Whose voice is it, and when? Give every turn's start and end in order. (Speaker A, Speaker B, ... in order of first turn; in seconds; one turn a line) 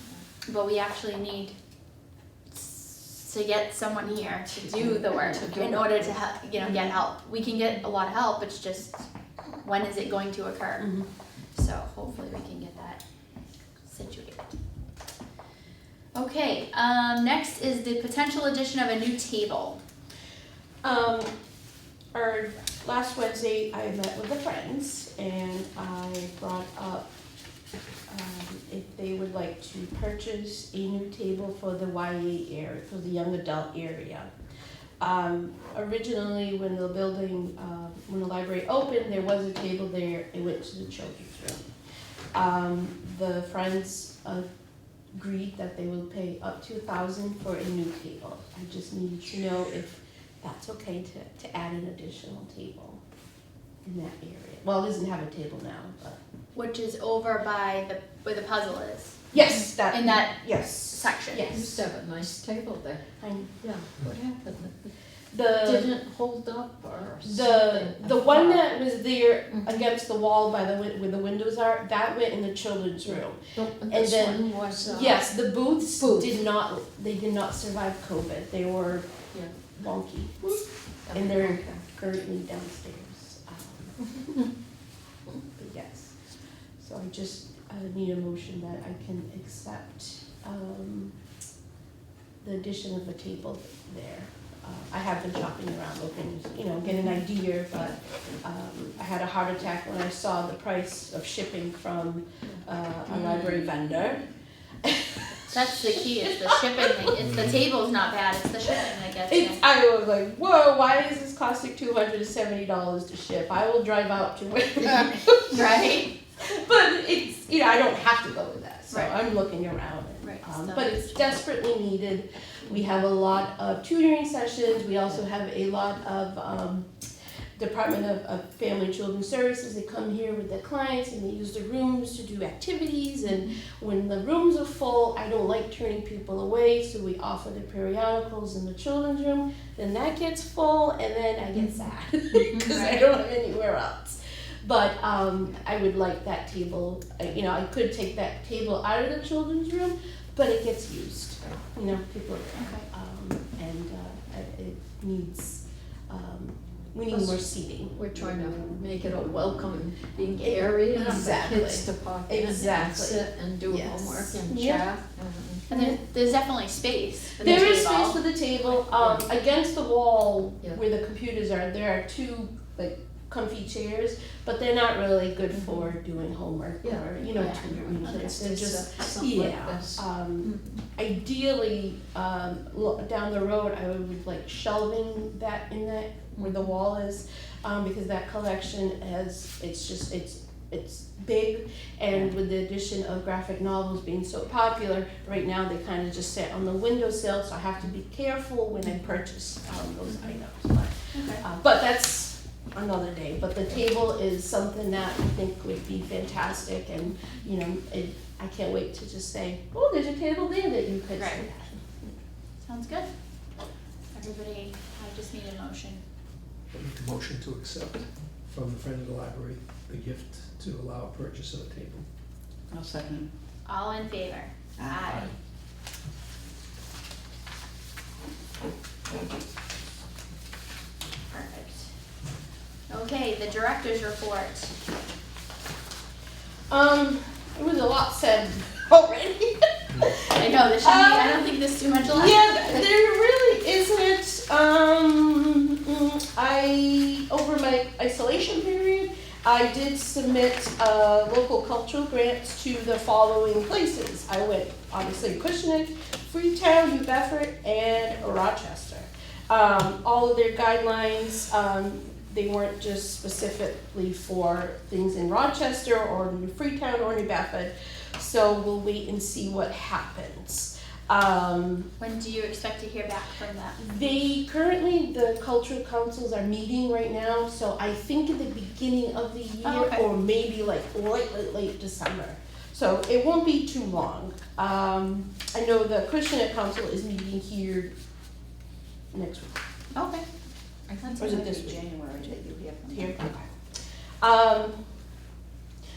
Speaker A: 0.5-1.6
Speaker A: 2.5-9.1
Speaker B: 4.0-7.0
Speaker A: 9.6-11.0
Speaker C: 10.8-11.1
Speaker A: 11.6-13.0
Speaker A: 13.8-14.6
Speaker A: 16.1-19.8
Speaker C: 20.8-21.3
Speaker C: 22.1-27.1
Speaker C: 28.1-34.3
Speaker C: 35.0-41.6
Speaker C: 42.3-44.5
Speaker C: 45.1-53.0
Speaker C: 53.9-56.2
Speaker A: 56.5-59.2
Speaker C: 59.3-62.2
Speaker A: 59.8-61.5
Speaker B: 61.5-63.0
Speaker C: 63.2-63.5
Speaker B: 63.6-64.9
Speaker C: 65.3-65.9
Speaker B: 65.6-68.7
Speaker C: 67.2-79.1
Speaker B: 69.5-69.9
Speaker B: 73.1-75.3
Speaker B: 76.0-76.4
Speaker C: 79.7-84.4
Speaker B: 80.5-81.8
Speaker C: 85.6-86.2
Speaker C: 86.8-91.1
Speaker C: 92.4-104.2
Speaker C: 104.8-106.9
Speaker A: 105.5-109.6
Speaker C: 109.3-115.8
Speaker A: 115.5-116.1
Speaker C: 116.4-126.9
Speaker A: 120.2-121.2
Speaker C: 127.6-157.9
Speaker A: 142.6-143.0
Speaker A: 152.6-152.9
Speaker B: 157.1-157.4
Speaker B: 157.9-165.7
Speaker C: 160.4-164.9
Speaker C: 165.7-166.0
Speaker A: 165.7-168.2
Speaker C: 167.4-211.8
Speaker B: 167.4-167.7
Speaker B: 168.9-169.2
Speaker B: 176.8-180.6
Speaker A: 177.3-178.3
Speaker A: 201.1-201.4
Speaker A: 211.2-211.5
Speaker A: 212.6-213.1
Speaker A: 214.1-216.0
Speaker D: 216.7-222.1
Speaker E: 222.7-223.3
Speaker A: 223.7-225.3
Speaker E: 224.8-225.2
Speaker A: 231.3-231.9
Speaker A: 232.9-234.8
Speaker C: 236.7-241.5
Speaker A: 240.3-242.9
Speaker C: 242.1-271.9
Speaker A: 272.0-274.2
Speaker C: 273.8-287.9
Speaker A: 279.6-280.0
Speaker C: 289.1-289.6
Speaker A: 289.9-290.2
Speaker E: 290.9-293.2
Speaker A: 291.0-291.4
Speaker C: 291.2-292.0
Speaker C: 292.9-293.5
Speaker C: 294.2-294.8